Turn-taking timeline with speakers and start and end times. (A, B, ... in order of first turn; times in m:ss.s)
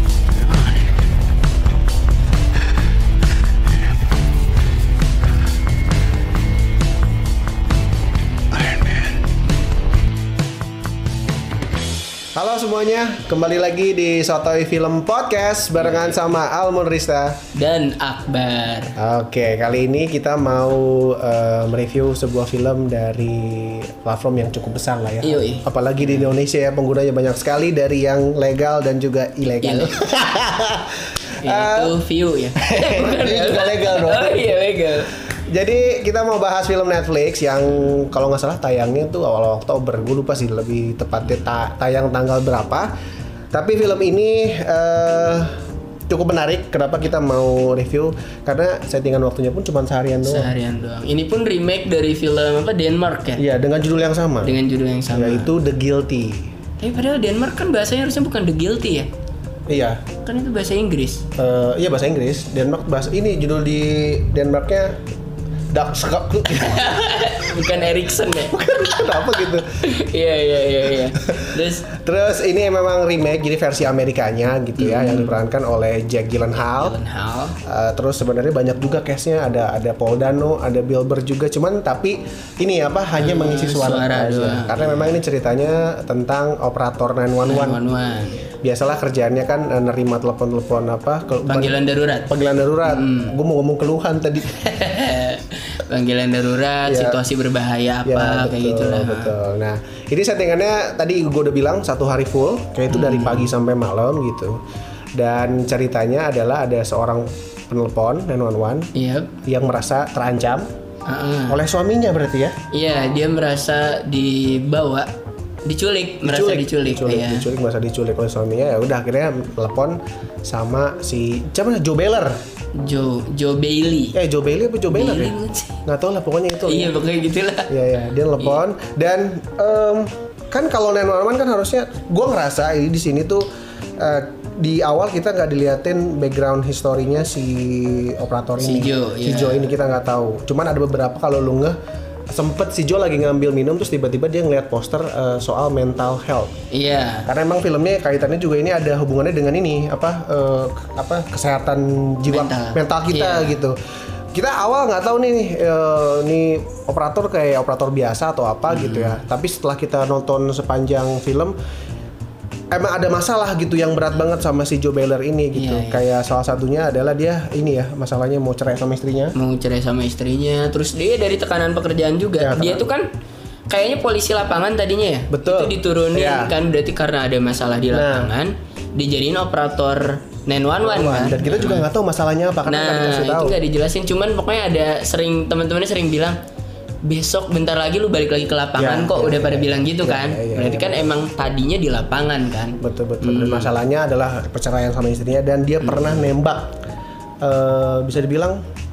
0:12.4-0:17.4 A
0:15.8-0:16.4 B
0:17.5-0:19.0 B
0:19.0-0:32.0 A
0:25.2-0:26.4 B
0:29.6-0:29.9 B
0:31.4-0:35.1 B
0:32.6-0:34.6 A
0:35.5-0:42.9 A
0:43.5-0:45.5 A
0:46.1-0:50.5 A
0:50.2-0:53.4 B
0:53.4-0:54.6 A
0:54.4-0:55.5 B
0:55.1-0:56.5 A
0:56.8-0:59.1 B
0:59.7-1:00.0 A
1:00.2-1:01.2 B
1:01.4-1:05.0 A
1:05.7-1:06.9 A
1:06.5-1:11.9 B
1:08.5-1:09.7 A
1:12.0-1:17.0 A
1:14.8-1:15.4 B
1:16.5-1:17.6 B
1:17.7-1:27.8 A
1:23.2-1:25.2 B
1:27.4-1:28.5 B
1:28.6-1:34.6 A
1:31.5-1:32.3 B
1:32.8-1:33.4 B
1:34.5-1:39.4 B
1:36.9-1:37.2 A
1:38.0-1:44.6 A
1:42.9-1:43.5 B
1:45.2-1:48.9 A
1:49.0-1:49.3 B
1:49.4-1:50.7 A
1:51.1-1:51.6 B
1:51.5-1:52.6 A
1:52.7-1:55.1 B
1:55.7-1:57.5 B
1:56.2-2:02.4 A
2:02.8-2:04.2 B
2:04.1-2:07.0 A
2:04.9-2:05.8 B
2:06.7-2:07.7 B
2:07.7-2:13.5 A
2:14.0-2:21.8 A
2:18.6-2:19.7 B
2:22.3-2:26.5 A
2:26.7-2:27.3 B
2:27.3-2:33.8 A
2:32.3-2:33.6 B
2:34.3-2:41.6 A
2:38.7-2:39.2 B
2:42.7-2:49.3 A
2:45.5-2:46.0 B
2:49.3-2:53.1 B
2:52.4-2:52.8 A
2:53.7-3:01.9 B
2:55.3-2:56.5 A
2:57.9-2:58.4 A
3:00.8-3:03.6 A
3:02.6-3:06.4 B
3:07.0-3:13.7 B
3:08.8-3:11.2 A
3:12.8-3:16.8 A
3:15.8-3:16.3 B
3:17.4-3:18.6 A